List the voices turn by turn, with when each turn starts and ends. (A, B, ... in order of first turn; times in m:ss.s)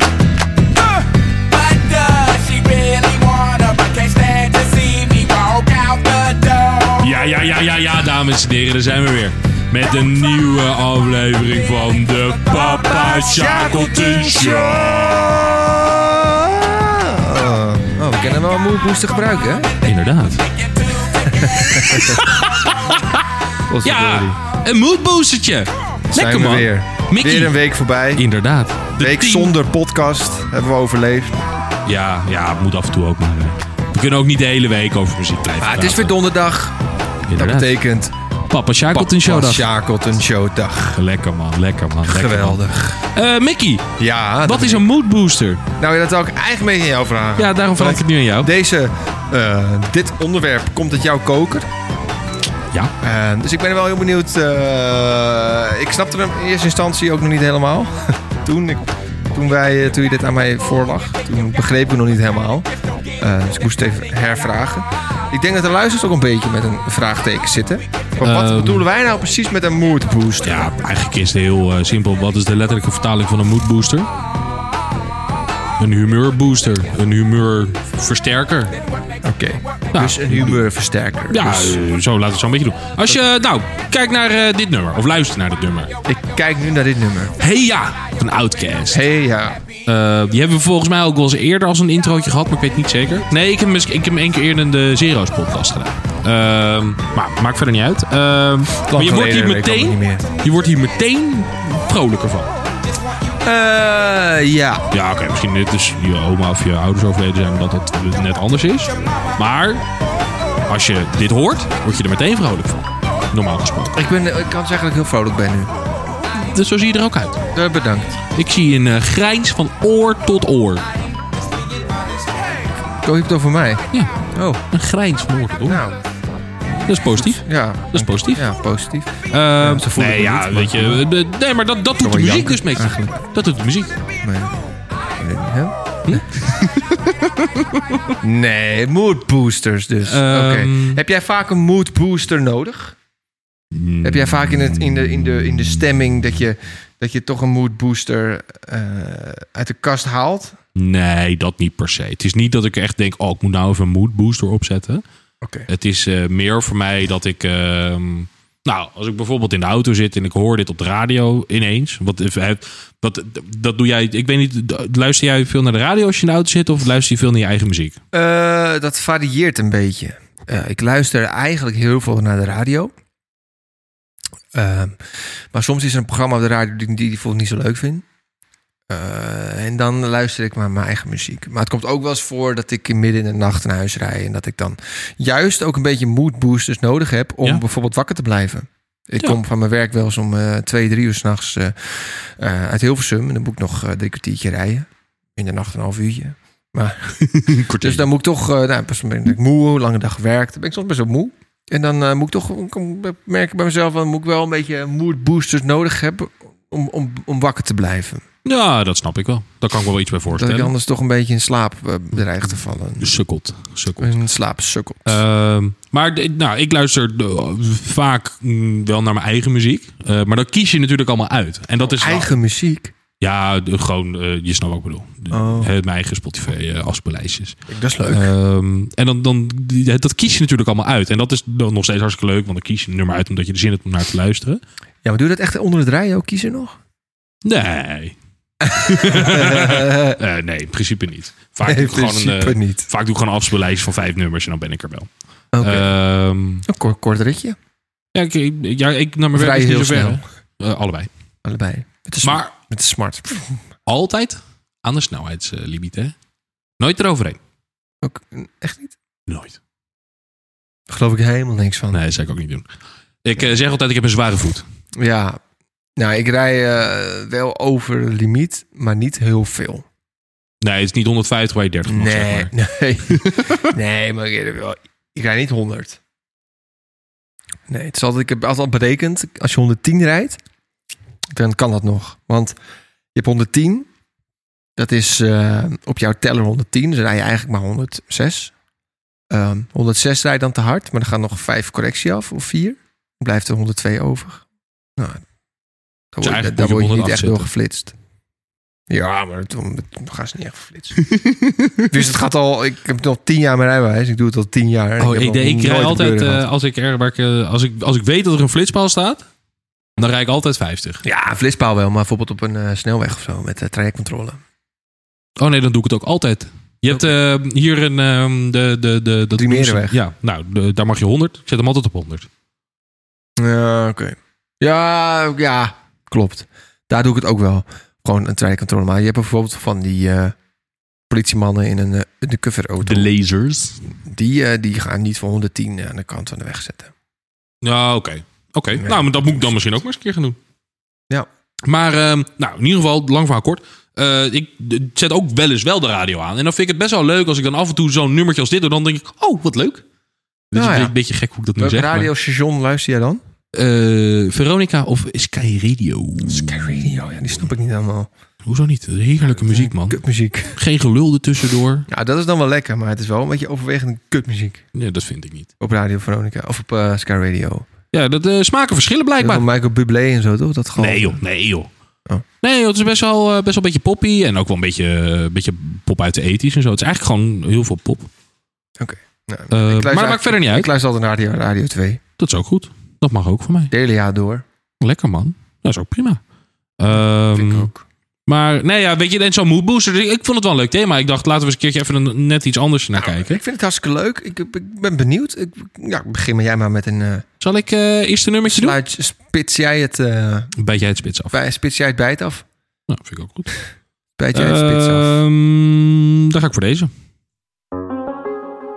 0:01.5-0:06.9 A
0:07.0-0:15.4 B
0:13.1-0:19.7 C
0:19.8-0:20.5 B
0:21.2-0:22.2 C
0:21.4-0:23.2 B
0:23.7-0:24.4 C
0:23.8-0:27.6 B
0:26.1-0:28.2 C
0:28.1-0:29.5 B
0:29.0-0:31.4 C
0:31.8-0:36.2 B
0:35.6-0:36.8 C
0:37.3-0:37.8 B
0:37.3-0:38.1 C
0:38.5-0:39.7 B
0:38.9-0:41.0 C
0:40.9-0:43.9 B
0:42.0-0:43.0 C
0:44.0-0:44.9 C
0:44.4-0:45.6 B
0:45.8-0:51.7 C
0:47.4-0:48.5 B
0:53.0-1:10.7 C
1:08.2-1:08.8 B
1:10.4-1:14.1 B
1:15.8-1:18.8 B
1:19.2-1:21.8 C
1:19.9-1:20.6 B
1:21.3-1:26.0 B
1:26.0-1:27.3 C
1:27.4-1:29.0 B
1:28.9-1:29.6 C
1:29.8-1:42.5 B
1:38.8-1:40.3 C
1:43.4-1:44.8 C
1:44.9-1:49.8 B
1:50.6-1:54.0 B
1:53.9-1:55.7 C
1:56.4-1:57.4 B
1:57.5-1:58.2 C
1:58.3-2:00.8 B
2:02.8-2:04.6 C
2:04.7-2:05.8 B
2:05.6-2:06.0 C
2:06.8-2:08.4 B
2:07.1-2:11.0 C
2:09.3-2:13.9 B
2:12.0-2:13.2 C
2:14.2-2:14.6 C
2:15.2-2:16.3 C
2:16.1-2:18.0 B
2:18.2-2:23.0 C
2:20.0-2:21.0 B
2:23.7-2:25.4 B
2:24.0-2:30.6 C
2:30.7-2:35.0 B
2:35.4-2:35.7 C
2:35.7-2:48.0 B
2:48.1-2:52.9 C
2:54.5-2:55.0 C
2:55.5-2:58.0 C
2:58.9-3:17.1 C
3:17.2-3:18.1 B
3:17.8-3:28.2 C
3:28.4-3:30.7 B
3:30.3-3:33.1 C
3:33.0-3:34.2 B
3:34.0-3:35.2 C
3:35.0-3:42.3 B
3:41.8-3:42.9 C
3:43.2-3:54.6 B
3:45.3-3:45.7 C
3:47.7-3:48.3 C
3:55.0-3:56.8 C
3:57.4-4:05.1 B
3:58.6-4:00.2 C
4:01.6-4:02.9 C
4:05.5-4:05.9 C
4:05.6-4:06.6 B
4:06.6-4:07.6 C
4:08.1-4:11.1 B
4:09.3-4:10.2 C
4:11.4-4:13.6 C
4:12.2-4:12.5 B
4:13.8-4:16.1 B
4:16.8-4:17.4 B
4:18.0-4:19.0 C
4:19.3-4:19.6 B
4:20.9-4:22.0 C
4:21.9-4:22.7 B
4:23.2-4:24.6 B
4:24.9-4:25.4 C
4:26.0-4:29.8 C
4:30.6-4:32.5 B
4:31.9-4:36.0 C
4:33.1-4:33.7 B
4:37.7-4:40.4 C
4:41.3-4:42.6 C
4:43.1-4:43.9 C
4:44.8-4:48.5 C
4:49.3-4:54.4 C
4:55.0-4:55.2 C
4:56.1-4:57.9 C
4:56.2-4:57.5 B
4:58.9-5:01.0 C
5:01.0-5:01.9 B
5:01.9-5:06.4 C
5:05.0-5:09.2 B
5:10.0-5:11.0 B
5:11.0-5:14.4 C
5:15.4-5:22.3 B
5:19.4-5:20.0 C
5:23.4-5:30.3 C
5:31.1-5:33.1 C
5:32.8-5:33.8 B
5:34.0-5:36.9 C
5:37.6-5:40.4 B
5:38.7-5:39.4 C
5:41.6-5:49.8 B
5:50.5-5:52.1 B
5:50.5-5:50.9 C
5:51.6-5:53.2 C
5:53.5-5:57.1 B
5:56.2-5:58.1 C
5:58.4-6:00.0 B
5:59.3-6:00.6 C
6:00.5-6:01.9 B
6:01.9-6:04.6 C
6:04.7-6:05.5 B
6:05.6-6:07.7 C
6:07.9-6:09.4 B
6:09.2-6:11.2 C
6:10.8-6:11.7 B
6:12.4-6:18.1 B
6:18.8-6:22.0 C
6:19.5-6:20.7 B
6:22.2-6:23.7 B
6:23.7-6:24.4 C
6:24.8-6:26.2 B
6:26.8-6:27.7 B
6:26.9-6:27.8 C
6:28.3-6:33.4 B
6:32.9-6:37.2 C
6:37.4-6:38.8 B
6:38.5-6:40.5 C
6:40.6-6:41.4 B
6:41.3-6:42.4 C
6:42.9-6:43.5 B
6:44.2-6:45.2 C
6:44.3-6:46.9 B